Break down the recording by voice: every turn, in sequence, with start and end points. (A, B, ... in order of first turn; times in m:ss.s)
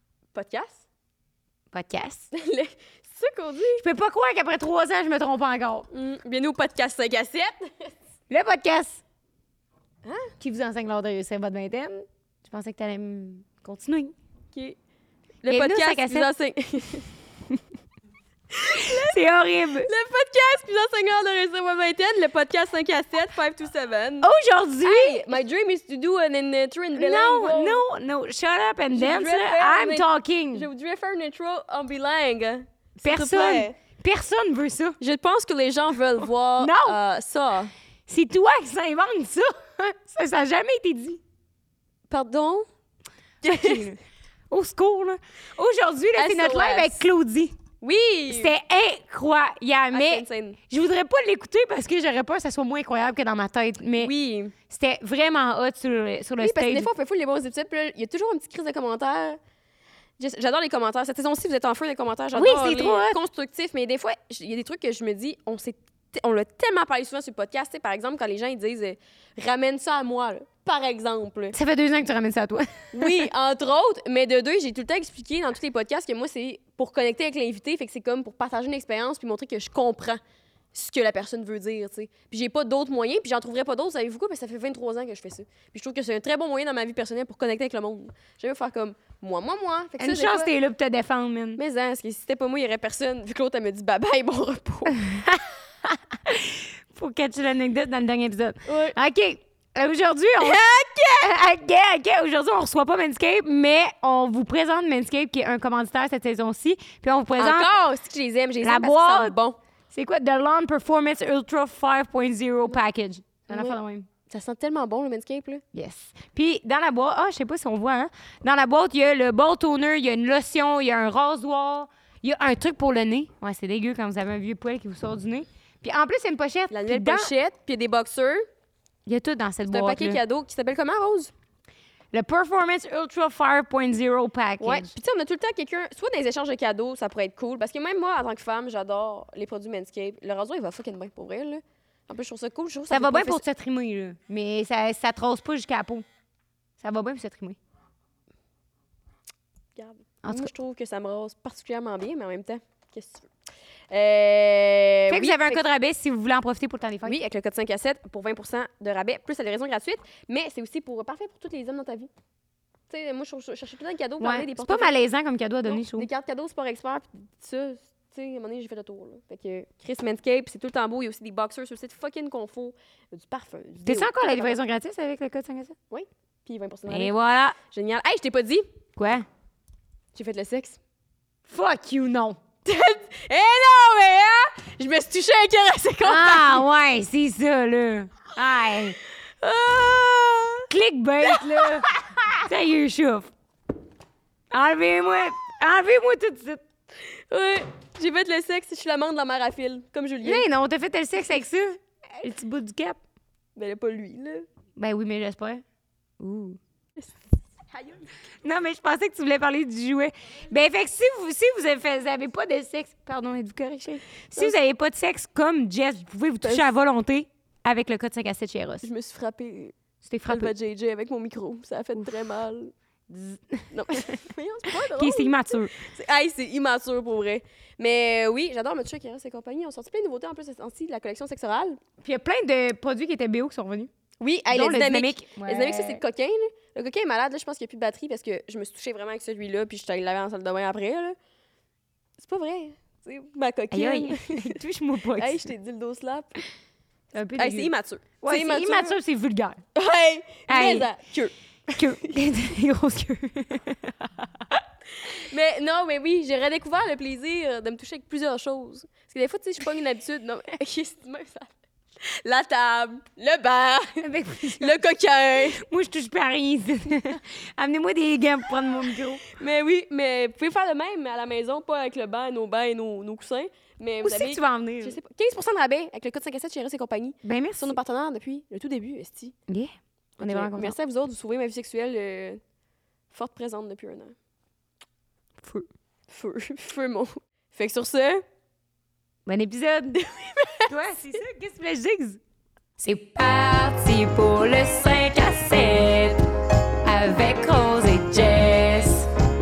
0:00.3-0:00.8 A
0:01.7-0:02.3 B
0:02.3-0:03.8 A
0:03.8-0:05.9 B
0:05.9-0:07.9 A
0:08.3-0:09.0 B
0:10.0-0:10.3 A
0:10.4-0:14.1 B
0:15.4-0:17.1 A
0:15.5-0:16.3 B
0:18.6-0:19.2 A
0:18.6-0:19.9 B
0:19.9-0:24.3 A
0:24.2-0:25.2 B
0:24.8-0:27.8 A
0:27.0-0:30.7 B
0:29.0-0:33.7 A
0:33.0-0:35.0 B
0:35.0-0:37.7 A
0:36.6-0:37.0 B
0:38.1-0:41.2 B
0:42.1-0:42.7 A
0:43.4-0:43.9 A
0:43.4-0:44.0 B
0:44.5-0:47.6 B
0:46.2-0:47.0 A
0:47.8-0:48.5 A
0:48.3-0:54.1 B
0:49.9-0:50.6 A
0:54.0-0:54.5 A
0:54.7-0:56.9 B
0:56.4-0:59.4 A
1:00.2-1:11.6 A
1:02.4-1:03.2 B
1:11.5-1:13.2 B
1:12.9-1:20.2 A
1:20.7-1:30.5 A
1:30.0-1:31.6 B
1:31.6-1:35.0 A
1:34.9-1:40.6 B
1:38.7-1:39.0 A
1:40.4-1:41.3 A
1:41.2-1:47.7 B
1:47.4-1:49.6 A
1:48.6-1:49.4 B
1:49.9-1:54.1 B
1:53.5-1:53.8 A
1:54.3-1:55.6 A
1:55.7-2:07.3 B
2:06.7-2:08.5 A
2:09.1-2:10.2 B
2:09.7-2:11.3 A
2:12.1-2:14.9 B
2:14.6-2:23.4 A
2:22.9-2:26.0 B
2:26.8-2:27.6 B
2:29.8-2:33.3 A
2:30.2-2:30.5 B
2:33.9-2:35.6 A
2:35.1-2:37.2 B
2:37.0-2:42.1 A
2:42.9-2:45.0 A
2:44.2-2:46.1 B
2:45.6-2:54.6 A
2:53.8-2:55.8 B
2:55.9-2:57.1 A
2:56.9-2:57.6 B
2:57.7-2:58.7 A
2:59.0-2:59.3 B
3:00.2-3:00.8 A
3:01.5-3:02.4 B
3:02.6-3:06.7 A
3:06.0-3:09.0 B
3:09.4-3:10.7 A
3:10.7-3:11.9 B
3:12.4-3:13.3 B
3:14.5-3:16.6 B
3:17.2-3:20.4 A
3:20.2-3:23.0 B
3:23.6-3:24.5 A
3:24.8-3:25.6 B
3:26.2-3:26.6 B
3:28.4-3:38.9 B
3:38.8-3:39.7 A
3:40.0-3:40.5 B
3:40.3-3:42.7 A
3:43.1-3:44.2 B
3:43.7-3:51.8 A
3:44.8-3:45.7 B
3:52.0-3:53.9 B
3:54.2-4:01.2 A
3:54.5-3:56.0 B
4:02.2-4:04.6 A
4:03.7-4:05.4 B
4:05.2-4:06.4 A
4:07.1-4:07.7 B
4:07.4-4:09.0 A
4:08.2-4:09.6 B
4:09.8-4:11.3 A
4:10.5-4:10.9 B
4:11.7-4:14.1 B
4:15.0-4:21.5 A
4:22.0-4:25.6 A
4:24.0-4:24.8 B
4:25.6-4:29.2 B
4:29.3-4:39.4 A
4:34.0-4:35.0 B
4:37.2-4:37.8 B
4:39.5-4:40.8 B
4:40.2-4:42.4 A
4:43.1-4:44.2 A
4:46.1-4:48.2 A
4:49.3-4:50.0 B
4:50.0-4:50.7 A
4:50.7-4:52.2 B
4:52.8-4:56.2 B
4:56.8-4:59.1 B